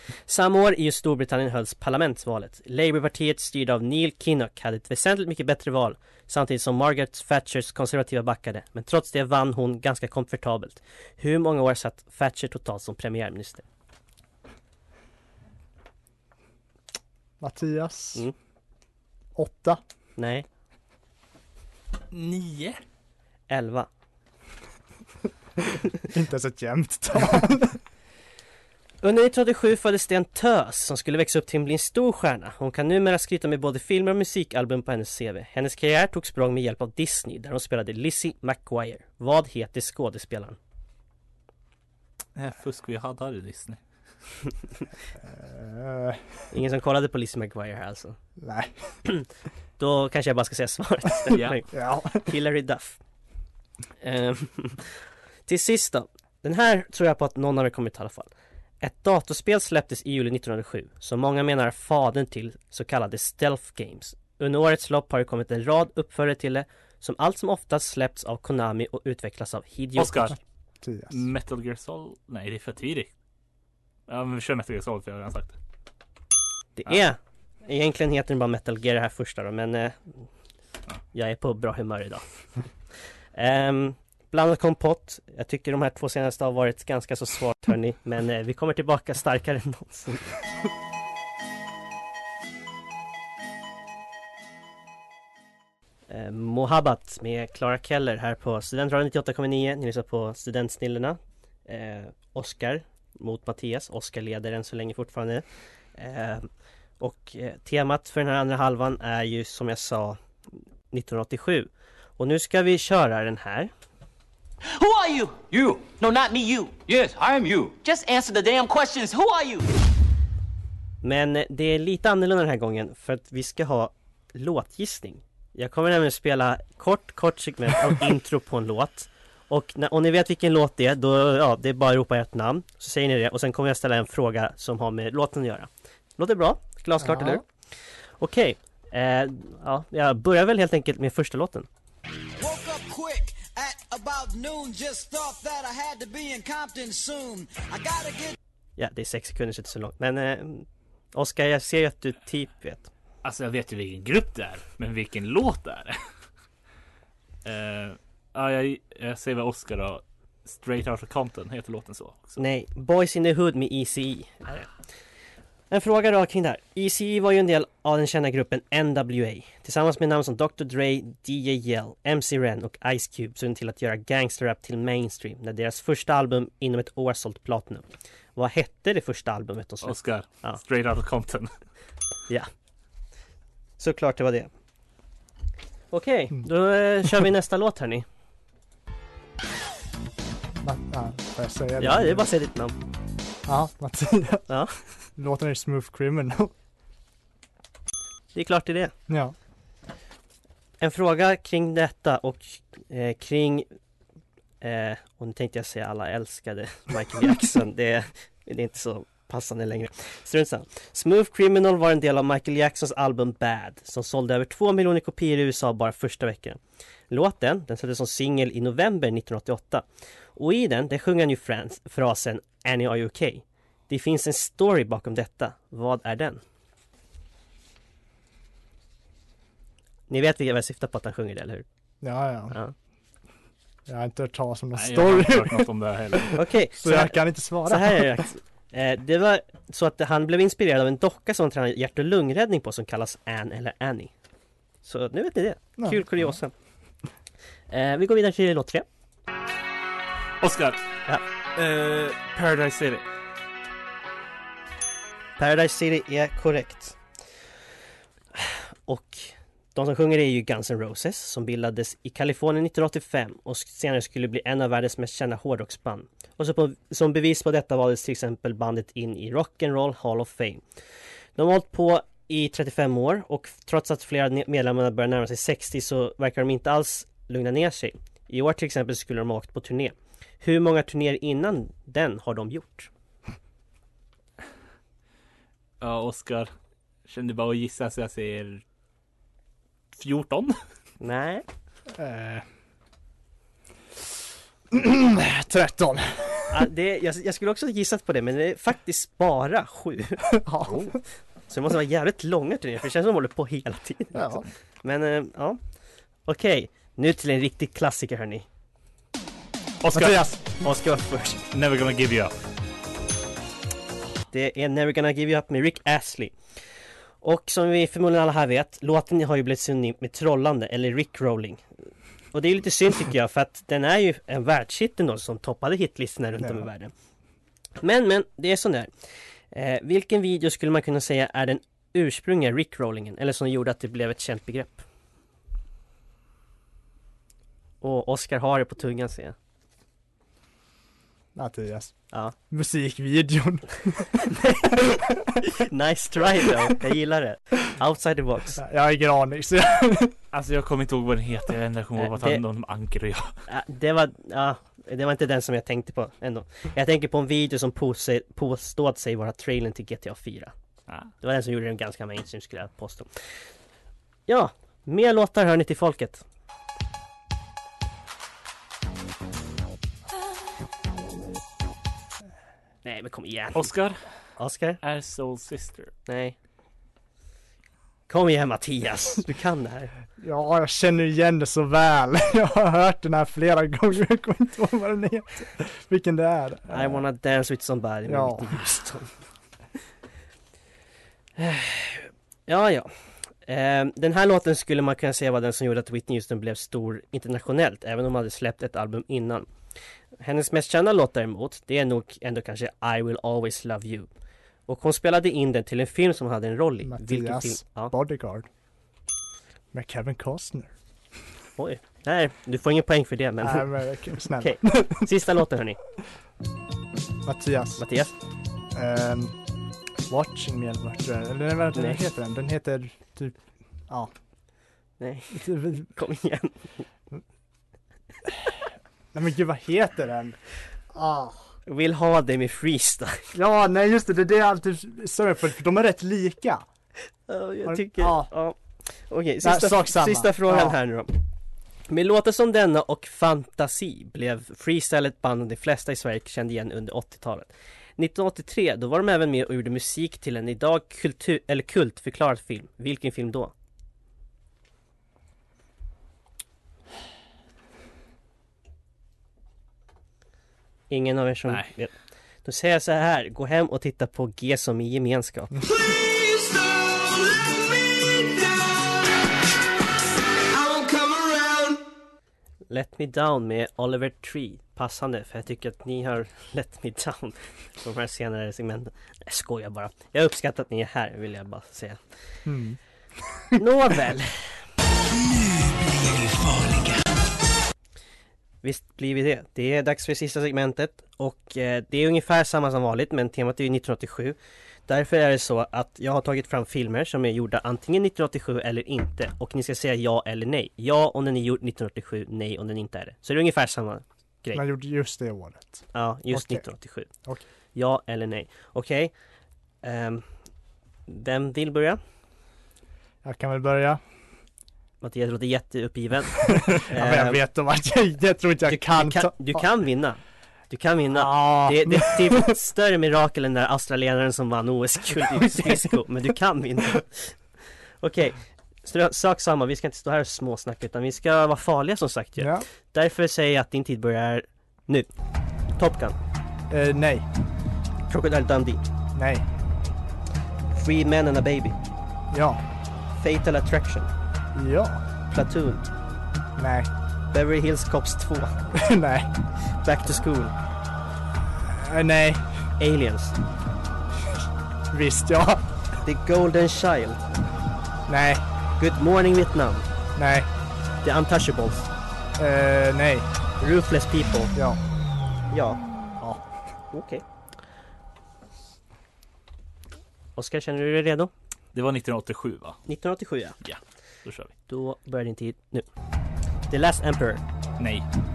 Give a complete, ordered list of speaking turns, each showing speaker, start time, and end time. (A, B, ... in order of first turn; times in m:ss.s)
0:00.3-0:13.6 A
0:17.4-0:18.2 B
0:19.4-0:19.8 B
0:20.2-0:20.4 A
0:22.1-0:22.8 C
0:23.5-0:23.9 A
0:26.0-0:27.8 B
0:29.0-0:40.6 A
0:42.4-0:43.8 C
0:45.2-0:46.4 B
0:46.5-0:48.2 A
0:48.4-0:49.0 B
0:49.8-0:53.0 A
0:51.3-0:51.6 C
0:51.7-0:52.3 B
0:54.0-0:58.3 A
0:58.8-1:10.3 A
1:10.0-1:10.4 C
1:10.8-1:11.2 B
1:11.1-1:13.1 C
1:14.1-1:15.5 C
1:16.8-1:20.2 A
1:21.1-1:22.2 A
1:23.3-1:30.2 A
1:36.1-1:45.4 A
1:46.0-1:46.5 A
1:47.0-1:50.2 A
1:50.9-1:53.7 A
1:54.7-1:59.6 D
2:01.0-2:17.4 A
2:17.0-2:17.4 B
2:18.2-2:21.7 A
2:22.4-2:28.3 E
2:28.8-2:32.9 A
2:33.2-2:36.0 C
2:37.4-2:42.4 C
2:42.4-2:44.7 A
2:45.7-2:57.8 A
2:58.4-3:00.6 A
2:59.8-3:01.5 C
3:03.8-3:04.5 A
3:05.9-3:08.0 A
3:10.6-3:12.3 B
3:11.8-3:12.8 A
3:13.4-3:14.5 B
3:15.2-3:16.5 B
3:18.3-3:18.9 A
3:19.1-3:19.3 B
3:20.8-3:23.7 A
3:24.6-3:36.6 A
3:37.1-3:39.8 A
3:40.4-3:46.4 A
3:50.1-3:51.6 A
3:52.0-3:52.6 B
3:53.9-3:58.2 B
3:54.7-3:56.4 C
3:56.3-4:04.1 A
4:04.8-4:06.5 A
4:07.7-4:08.8 A
4:10.4-4:10.8 C
4:11.6-4:13.0 C
4:15.4-4:17.0 A
4:18.3-4:30.6 A
4:31.4-4:42.9 A
4:45.8-4:46.5 C
4:47.1-4:48.6 C
4:49.9-4:50.6 C
4:51.0-4:51.4 A
4:51.9-4:52.4 B
4:54.7-4:56.7 B
4:56.5-5:00.4 A
5:00.3-5:00.9 B
5:01.5-5:05.6 A
5:04.1-5:04.4 B
5:06.2-5:08.4 A
5:09.8-5:10.2 C
5:09.9-5:10.4 B
5:10.6-5:11.4 A
5:11.5-5:12.3 C
5:14.3-5:16.4 A
5:17.2-5:21.6 A
5:22.3-5:26.9 A
5:26.4-5:26.7 B
5:27.8-5:28.9 A
5:29.5-5:34.8 A
5:37.8-5:39.3 A
5:41.3-5:41.9 B
5:42.5-5:45.4 B
5:44.3-5:44.7 A
5:45.4-5:48.6 A
5:48.6-5:50.1 B
5:50.3-5:53.4 C
5:52.0-5:52.4 A
5:53.5-6:00.5 A
6:01.2-6:03.1 A
6:04.3-6:06.2 A
6:12.8-6:13.7 A
6:13.6-6:14.0 C
6:14.4-6:14.8 A
6:14.8-6:15.9 C
6:16.1-6:16.4 A
6:18.1-6:19.9 A
6:20.2-6:27.0 B
6:26.7-6:29.1 A
6:28.1-6:28.6 B
6:31.4-6:32.9 A
6:33.4-6:39.5 A
6:40.2-6:44.1 A
6:44.7-6:47.9 A
6:46.8-6:48.5 B
6:49.7-6:50.7 B
6:51.6-6:53.7 A
6:53.4-6:55.1 B
6:54.4-6:55.8 A
6:57.2-6:57.8 B
6:57.8-6:58.1 A
6:58.7-6:59.4 B
7:00.1-7:03.4 B
7:01.7-7:02.0 A
7:05.0-7:06.6 A
7:05.3-7:05.9 B
7:09.1-7:10.4 B
7:10.9-7:11.5 B
7:11.7-7:13.3 A
7:13.3-7:16.6 B
7:17.3-7:18.6 A
7:17.6-7:18.3 B
7:19.1-7:21.2 A
7:19.4-7:20.8 B
7:21.9-7:33.5 A
7:40.9-7:41.9 A
7:42.4-7:45.6 A
7:46.0-7:47.4 E
7:50.5-7:51.8 E
7:52.7-8:02.0 A
8:02.4-8:03.6 B
8:03.6-8:04.5 A
8:08.6-8:24.6 A
8:24.5-8:26.6 B
8:25.9-8:27.1 A
8:27.7-8:29.1 A
8:29.8-8:30.2 A
8:31.1-8:32.0 A
8:33.2-8:34.0 B
8:35.0-8:37.4 A
8:36.5-8:39.6 B
8:38.6-8:47.4 A
8:41.1-8:42.6 B
8:45.4-8:45.9 B
8:48.0-8:55.1 A
8:52.4-8:52.6 B
8:55.7-8:56.2 A
8:56.7-8:57.3 B
8:58.1-8:58.8 A
8:59.1-8:59.4 B
9:00.7-9:01.8 A
9:02.3-9:02.6 B
9:03.1-9:04.1 A
9:04.5-9:05.0 B
9:05.3-9:05.8 A
9:06.6-9:06.9 B
9:07.3-9:08.6 A
9:08.7-9:09.3 B
9:09.8-9:10.5 A
9:11.6-9:12.6 B
9:12.8-9:13.4 A
9:14.2-9:15.7 B
9:16.0-9:17.3 A
9:18.1-9:18.4 B
9:18.8-9:19.9 A
9:20.2-9:20.5 B
9:21.0-9:21.9 A
9:22.4-9:23.3 B
9:23.6-9:24.5 A
9:24.5-9:24.8 B
9:25.5-9:25.8 A
9:26.2-9:26.4 B
9:26.9-9:27.2 A
9:30.4-9:31.3 A
9:31.7-9:32.8 C
9:32.9-9:33.6 A
9:33.6-9:34.5 C
9:34.7-9:35.9 A
9:36.7-9:37.4 A
9:37.8-9:38.0 C